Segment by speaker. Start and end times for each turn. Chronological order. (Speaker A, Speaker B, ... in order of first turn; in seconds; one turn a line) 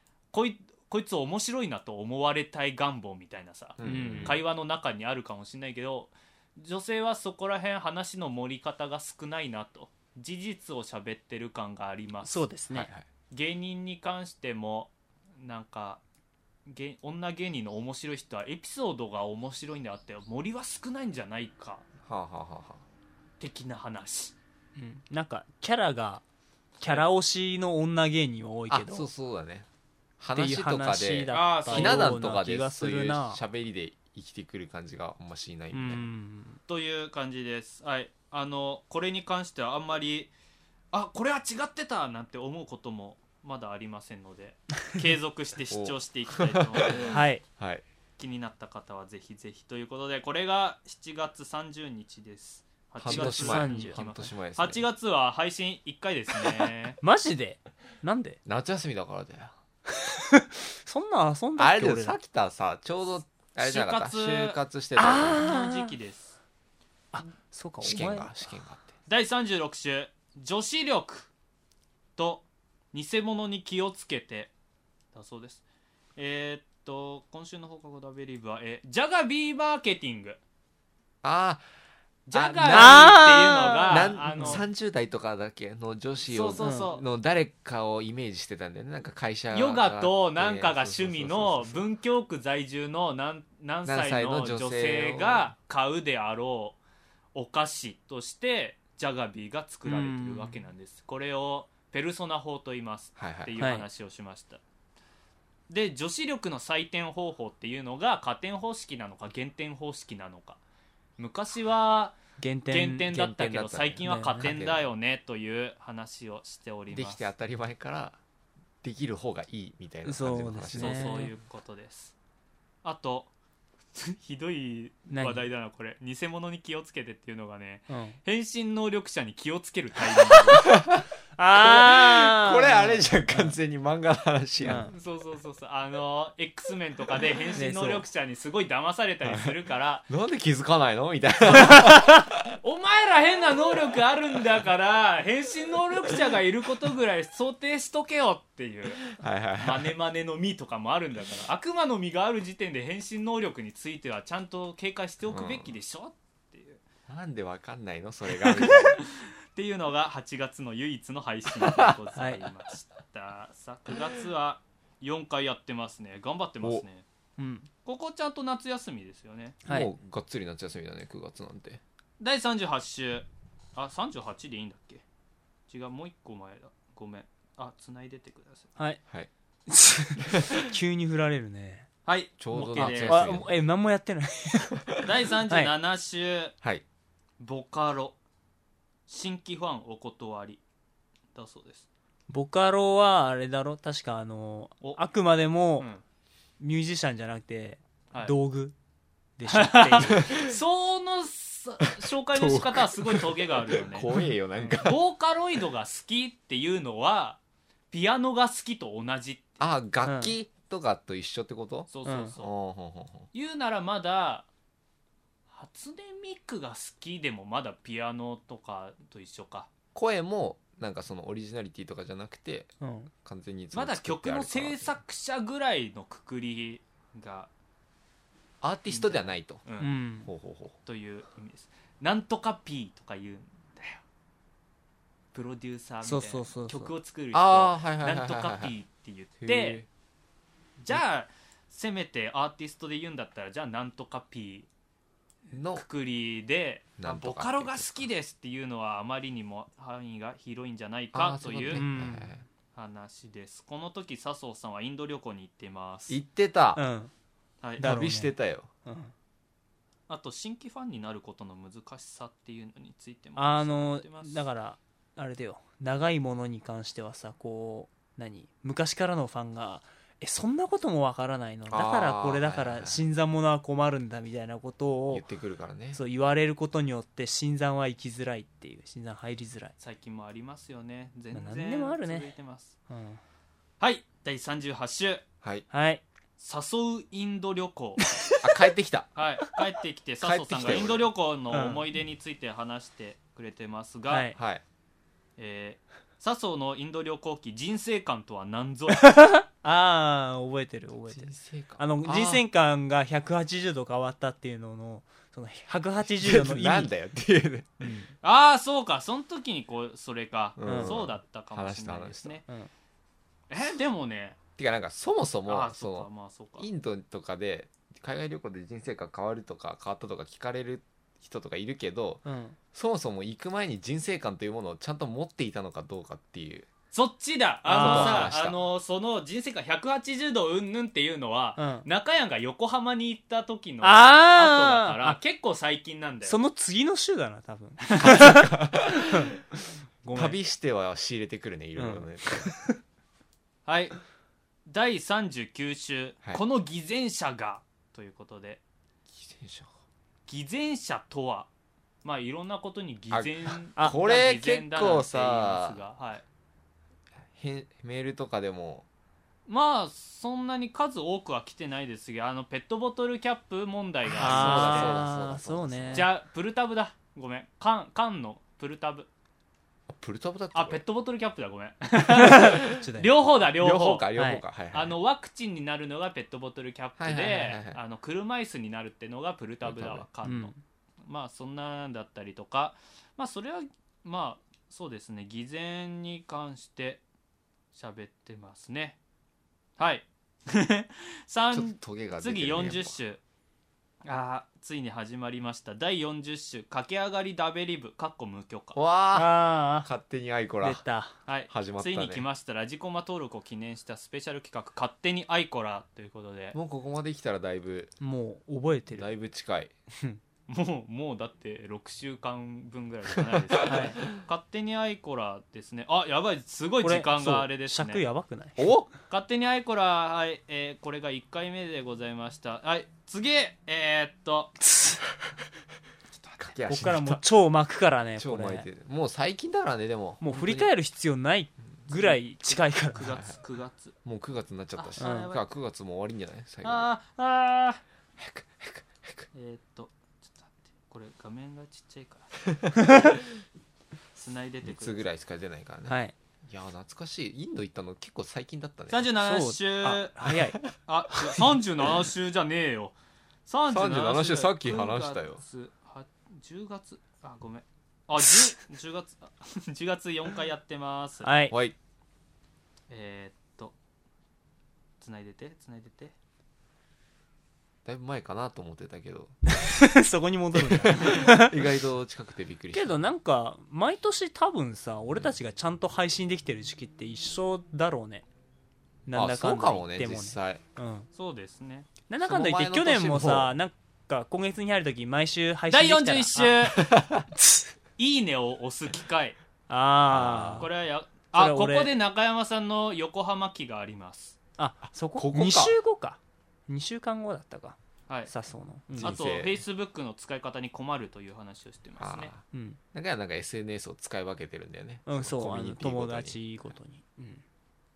Speaker A: 0.3-12.4
Speaker B: 3.8-4.4
Speaker C: 3.8-4.4
Speaker C: 12.2-12.9
Speaker B: 12.7-13.1
Speaker A: 13.3-16.0
Speaker A: 16.7-21.9
Speaker B: 22.0-22.8
Speaker A: 23.4-24.4
Speaker C: 24.8-26.2
Speaker C: 26.8-29.1
Speaker B: 28.7-29.7
Speaker B: 30.2-36.1
Speaker C: 30.4-33.4
Speaker A: 31.3-32.2
Speaker C: 35.7-36.6
Speaker A: 36.7-40.3
Speaker A: 40.9-47.2
Speaker B: 45.7-47.8
Speaker C: 47.1-47.4
Speaker A: 48.2-57.0
Speaker B: 53.0-54.8
Speaker C: 53.0-54.0
Speaker C: 57.0-58.4
Speaker B: 58.4-59.5
Speaker C: 59.9-62.2
Speaker B: 61.6-65.5
Speaker A: 63.6-64.6
Speaker C: 65.0-65.9
Speaker A: 65.3-66.4
Speaker C: 67.1-68.4
Speaker B: 67.8-68.9
Speaker A: 69.1-71.3
Speaker A: 72.2-74.5
Speaker A: 75.1-75.6
Speaker A: 76.2-80.4
Speaker B: 81.2-81.6
Speaker A: 82.3-84.6
Speaker B: 82.3-83.2
Speaker C: 82.7-84.6
Speaker B: 83.9-91.9
Speaker A: 86.3-87.0
Speaker C: 86.6-86.9
Speaker A: 89.5-96.8
Speaker B: 93.8-95.5
Speaker A: 97.3-104.6
Speaker C: 99.8-100.6
Speaker B: 103.2-103.5
Speaker C: 103.6-103.9
Speaker A: 105.7-110.6
Speaker A: 111.2-112.2
Speaker C: 112.4-113.3
Speaker A: 112.7-117.3
Speaker B: 113.1-114.9
Speaker C: 114.0-114.5
Speaker B: 116.9-118.2
Speaker B: 118.8-121.2
Speaker C: 120.0-121.3
Speaker A: 120.7-122.1
Speaker A: 122.8-123.3
Speaker A: 123.9-130.8
Speaker C: 125.1-125.4
Speaker C: 127.9-128.2
Speaker B: 130.6-131.1
Speaker C: 131.4-133.6
Speaker B: 131.6-134.9
Speaker C: 134.6-134.9
Speaker A: 134.9-140.1
Speaker C: 137.6-138.1
Speaker B: 139.2-139.6
Speaker B: 140.1-142.3
Speaker C: 141.7-142.0
Speaker A: 142.6-156.8
Speaker B: 149.1-149.9
Speaker B: 155.3-155.7
Speaker B: 157.1-159.0
Speaker A: 158.5-167.1
Speaker B: 161.6-161.9
Speaker C: 162.2-162.4
Speaker C: 167.4-167.7
Speaker A: 167.8-169.6
Speaker C: 169.6-169.9
Speaker B: 169.7-171.8
Speaker A: 172.2-175.0
Speaker A: 175.7-178.7
Speaker C: 179.7-181.9
Speaker B: 180.2-180.7
Speaker A: 182.1-183.3
Speaker B: 182.4-183.6
Speaker C: 182.6-184.9
Speaker A: 185.0-186.5
Speaker A: 187.4-188.2
Speaker A: 189.1-190.6
Speaker A: 191.3-191.9
Speaker C: 192.3-195.9
Speaker C: 196.6-198.7
Speaker C: 199.4-200.3
Speaker A: 199.5-204.1
Speaker B: 200.1-200.5
Speaker B: 202.3-205.0
Speaker A: 204.6-207.4
Speaker A: 207.9-209.6
Speaker B: 209.6-213.3
Speaker C: 210.0-210.3
Speaker A: 211.9-212.5
Speaker C: 212.1-212.3
Speaker A: 213.3-214.5
Speaker A: 215.5-219.7
Speaker B: 219.9-222.7
Speaker C: 222.8-223.1
Speaker B: 223.2-225.0
Speaker A: 223.7-227.5
Speaker B: 228.6-229.6
Speaker A: 228.9-229.9
Speaker C: 229.8-230.3
Speaker B: 230.2-230.8
Speaker A: 230.8-234.0
Speaker A: 235.3-239.8
Speaker C: 236.0-236.9
Speaker B: 237.3-238.7
Speaker B: 239.4-239.9
Speaker A: 240.8-244.7
Speaker B: 245.5-245.8
Speaker A: 245.7-251.8
Speaker B: 247.0-248.1
Speaker B: 251.1-252.4
Speaker C: 251.7-252.3
Speaker A: 252.8-256.2
Speaker B: 256.1-256.8
Speaker C: 256.8-257.1
Speaker A: 257.6-257.9
Speaker C: 257.8-258.3
Speaker B: 257.8-258.7
Speaker C: 258.9-259.1
Speaker A: 260.1-264.4
Speaker C: 263.4-275.2
Speaker B: 271.7-273.0
Speaker B: 275.1-276.0
Speaker C: 275.9-279.7
Speaker A: 279.8-282.8
Speaker C: 281.3-282.3
Speaker C: 282.9-283.2
Speaker A: 283.8-285.2
Speaker C: 285.7-286.0
Speaker A: 286.4-288.1
Speaker B: 288.4-289.1
Speaker A: 289.1-294.3
Speaker B: 290.2-291.1
Speaker C: 291.5-291.9
Speaker C: 294.1-294.4
Speaker B: 294.4-294.6
Speaker A: 295.4-299.1
Speaker C: 299.0-306.9
Speaker B: 301.1-302.4
Speaker B: 306.1-307.9
Speaker C: 307.8-308.1
Speaker A: 308.2-312.4
Speaker B: 310.6-312.4
Speaker C: 310.6-311.0
Speaker A: 313.5-314.4
Speaker B: 314.6-326.7
Speaker A: 315.5-316.7
Speaker C: 322.2-322.6
Speaker A: 326.9-336.4
Speaker C: 327.6-328.3
Speaker B: 327.8-328.6
Speaker C: 331.6-331.9
Speaker C: 333.8-335.2
Speaker C: 336.2-339.4
Speaker B: 337.9-339.4
Speaker C: 340.0-340.4
Speaker B: 340.1-342.5
Speaker C: 341.8-342.8
Speaker A: 343.6-344.0
Speaker A: 344.7-348.6
Speaker B: 349.1-349.7
Speaker A: 350.3-351.5
Speaker A: 352.0-356.2
Speaker B: 353.1-355.8
Speaker B: 357.3-358.9
Speaker A: 359.5-365.0
Speaker B: 364.1-366.1
Speaker C: 364.1-366.1
Speaker A: 365.9-369.1
Speaker B: 369.9-370.8
Speaker A: 370.5-374.1
Speaker C: 372.2-373.2
Speaker B: 373.6-374.9
Speaker C: 374.1-374.4
Speaker A: 374.7-380.5
Speaker B: 377.0-377.8
Speaker B: 379.6-380.1
Speaker C: 380.2-380.6
Speaker A: 381.0-387.0
Speaker A: 387.7-389.0
Speaker A: 389.8-393.2
Speaker B: 391.5-393.0
Speaker A: 394.1-398.8
Speaker B: 398.8-400.8
Speaker C: 399.1-399.9
Speaker C: 400.6-401.1
Speaker A: 401.3-406.6
Speaker B: 401.5-402.3
Speaker B: 406.5-407.9
Speaker C: 408.0-409.1
Speaker B: 408.9-409.7
Speaker C: 409.9-410.2
Speaker A: 410.5-418.0
Speaker B: 413.2-414.0
Speaker C: 413.6-414.0
Speaker C: 416.8-418.7
Speaker B: 418.6-418.9
Speaker A: 419.1-424.6
Speaker B: 426.4-427.2
Speaker C: 426.6-428.7
Speaker B: 428.2-430.7
Speaker C: 430.2-433.1
Speaker A: 431.9-433.9
Speaker B: 434.0-436.9
Speaker A: 434.8-435.4
Speaker C: 435.0-435.3
Speaker A: 436.6-437.8
Speaker B: 438.2-439.3
Speaker A: 439.3-442.3
Speaker B: 442.6-443.1
Speaker A: 444.1-445.0
Speaker B: 444.6-449.1
Speaker C: 445.9-446.1
Speaker A: 448.9-450.1
Speaker C: 449.2-450.6
Speaker B: 450.2-450.6
Speaker A: 450.9-452.9
Speaker A: 453.4-461.3
Speaker B: 453.7-455.4
Speaker C: 461.2-461.5
Speaker B: 461.5-461.8
Speaker A: 462.9-463.8
Speaker A: 465.0-466.1
Speaker B: 467.9-469.4
Speaker C: 469.5-471.7
Speaker B: 470.5-473.0
Speaker C: 472.7-478.2
Speaker C: 479.1-481.1
Speaker B: 479.1-480.6
Speaker A: 481.1-481.9
Speaker C: 482.1-486.6
Speaker B: 482.2-483.6
Speaker A: 485.7-486.9
Speaker B: 486.8-487.2
Speaker A: 488.0-489.4
Speaker C: 489.7-490.7
Speaker B: 490.1-490.7
Speaker A: 490.6-494.4
Speaker C: 491.3-491.9
Speaker C: 494.6-497.8
Speaker B: 495.1-495.8
Speaker C: 498.3-499.2
Speaker B: 498.9-499.6
Speaker A: 499.0-502.3
Speaker B: 502.0-506.4
Speaker C: 502.5-502.8
Speaker C: 505.1-507.4